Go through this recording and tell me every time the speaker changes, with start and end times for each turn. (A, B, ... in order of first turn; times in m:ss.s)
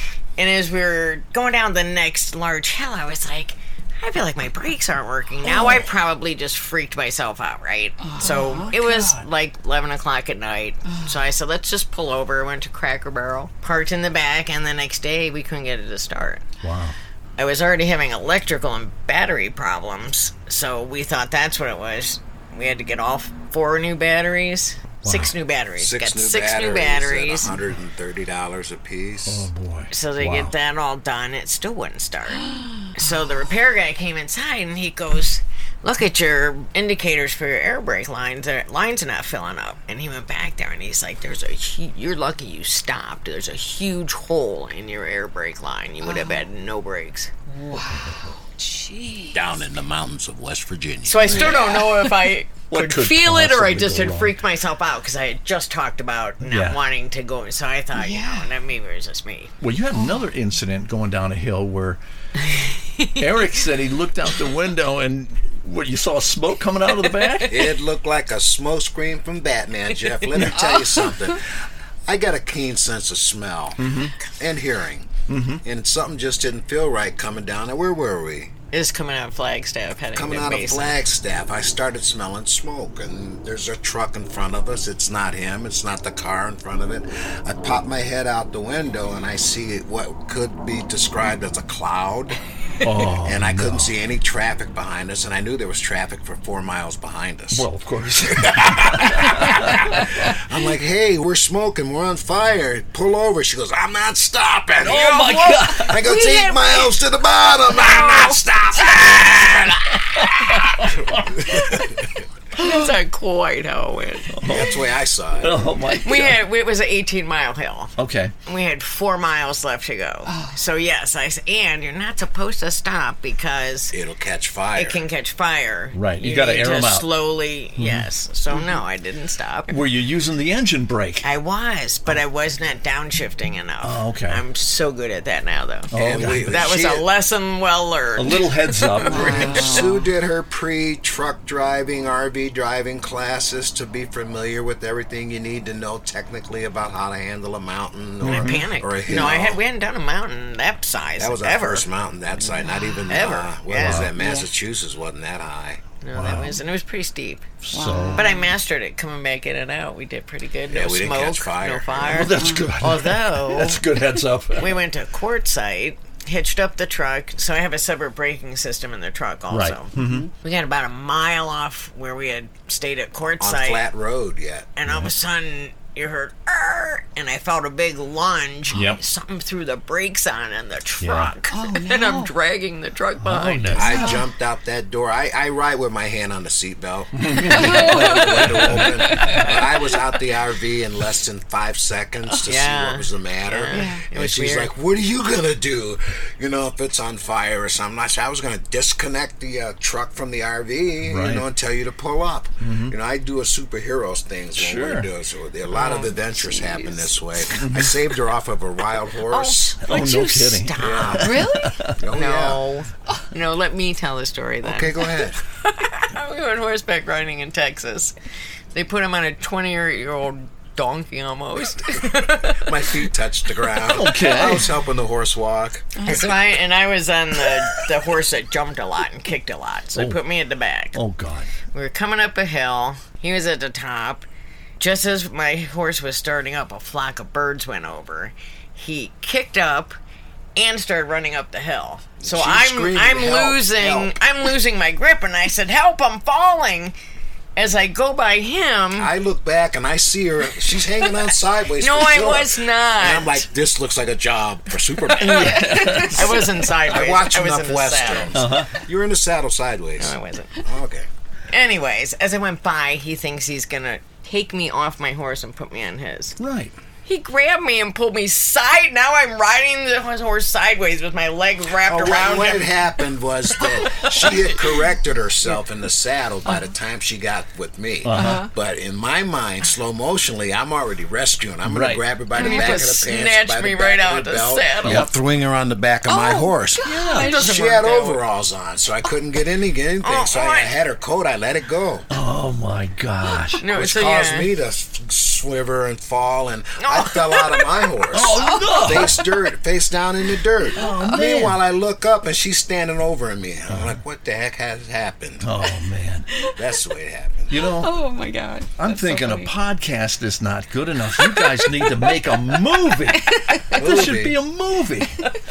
0:00.4-0:16.4 A
0:05.5-0:05.8 B
0:08.0-0:09.1 B
0:08.5-0:09.2 C
0:16.6-0:17.0 C
0:17.4-0:27.6 A
0:25.0-0:25.3 C
0:25.8-0:29.5 D
0:29.3-0:30.5 C
0:29.9-0:47.3 A
0:46.0-0:46.4 B
0:47.5-0:49.4 B
0:47.9-0:48.3 C
0:49.3-0:51.6 D
0:51.0-0:59.5 A
0:51.2-0:52.3 B
0:52.7-0:54.4 C
0:56.4-0:56.8 C
0:57.9-0:58.5 B
0:59.6-1:02.0 C
0:59.9-1:00.2 B
1:03.0-1:03.2 A
1:03.2-1:07.7 C
1:07.1-1:07.5 A
1:07.5-1:11.5 D
1:10.5-1:11.3 B
1:12.1-1:18.5 D
1:13.8-1:14.2 C
1:15.3-1:15.6 C
1:18.7-1:21.0 A
1:20.1-1:32.4 D
1:32.8-1:33.9 C
1:33.1-1:37.7 D
1:37.5-1:40.1 C
1:38.2-1:45.1 D
1:44.8-1:46.0 C
1:44.8-1:47.0 A
1:45.8-1:52.2 D
1:47.7-1:48.4 A
1:50.2-1:51.8 C
1:52.6-1:54.4 A
1:52.6-1:52.9 B
1:54.3-1:54.8 C
1:54.4-1:55.7 D
1:55.4-1:56.4 C
1:56.0-1:57.9 A
1:58.0-1:58.3 C
1:58.5-2:04.0 A
2:00.3-2:00.6 B
2:03.9-2:05.0 D
2:04.8-2:09.8 A
2:05.9-2:07.1 C
2:07.8-2:08.1 C
2:08.5-2:08.8 B
2:09.7-2:11.3 C
2:11.2-2:19.7 A
2:13.8-2:14.4 C
2:15.9-2:16.7 C
2:15.9-2:17.1 D
2:18.2-2:19.9 C
2:19.0-2:20.1 B
2:19.2-2:29.6 D
2:28.2-2:28.7 C
2:28.2-2:31.9 A
2:31.2-2:35.8 D
2:32.6-2:33.1 B
2:33.1-2:34.1 A
2:33.8-2:34.1 C
2:34.2-2:34.5 B
2:36.0-2:37.5 A
2:36.1-2:36.6 C
2:37.6-2:38.3 C
2:37.7-2:38.5 B
2:38.1-2:43.8 A
2:40.7-2:42.4 D
2:42.1-2:44.8 C
2:42.4-2:42.7 B
2:44.6-2:53.9 A
2:49.5-2:50.3 C
2:50.0-2:50.3 B
2:53.4-2:54.7 D
2:54.8-3:04.1 A
2:54.9-2:55.1 C
2:58.7-2:59.0 C
3:01.0-3:01.3 C
3:01.5-3:02.3 B
3:03.2-3:04.1 C
3:03.7-3:29.8 D
3:03.8-3:04.2 B
3:07.2-3:09.5 C
3:07.4-3:09.5 B
3:12.4-3:14.7 A
3:13.7-3:14.0 B
3:21.0-3:21.4 C
3:22.6-3:22.9 C
3:24.6-3:25.1 C
3:25.7-3:26.1 A
3:25.8-3:27.1 B
3:27.6-3:28.0 C
3:29.3-3:31.3 A
3:29.8-3:32.0 C
3:30.8-3:32.6 D
3:31.2-3:31.8 B
3:32.1-3:38.1 A
3:34.6-3:35.4 D
3:38.7-3:43.0 A
3:42.3-3:46.3 D
3:43.8-3:44.7 C
3:46.0-3:46.3 B
3:46.0-3:51.0 A
3:50.0-3:50.2 C
3:50.9-3:51.5 C
3:51.7-3:54.3 A
3:54.8-4:00.0 A
4:00.6-4:07.0 A
4:02.2-4:04.2 D
4:07.6-4:09.1 A
4:09.0-4:16.1 D
4:11.7-4:13.5 A
4:15.2-4:16.7 C
4:15.2-4:18.4 A
4:15.3-4:16.3 B
4:16.6-4:21.1 D
4:18.3-4:18.8 C
4:20.0-4:20.6 A
4:21.5-4:26.4 A
4:26.4-4:26.7 C
4:27.0-4:32.8 A
4:31.8-4:52.1 D
4:33.9-4:34.5 A
4:38.0-4:38.5 C
4:38.2-4:38.5 B
4:41.6-4:42.0 C
4:42.4-4:42.9 B
4:42.4-4:45.1 A
4:44.8-4:45.1 C
4:46.1-4:47.4 B
4:46.8-4:47.3 C
4:47.0-4:48.2 A
4:50.0-4:50.7 A
4:52.1-4:53.6 C
4:53.6-4:54.5 A
4:53.7-5:05.5 D
4:56.8-4:57.6 A
4:58.1-4:59.2 C
4:58.4-4:59.3 B
5:00.8-5:01.6 C
5:00.8-5:01.2 B
5:03.7-5:04.0 C
5:05.4-5:06.3 C
5:06.5-5:07.7 D
5:07.5-5:07.9 C
5:07.5-5:09.5 B
5:08.8-5:15.3 C
5:11.2-5:13.8 B
5:13.7-5:14.4 D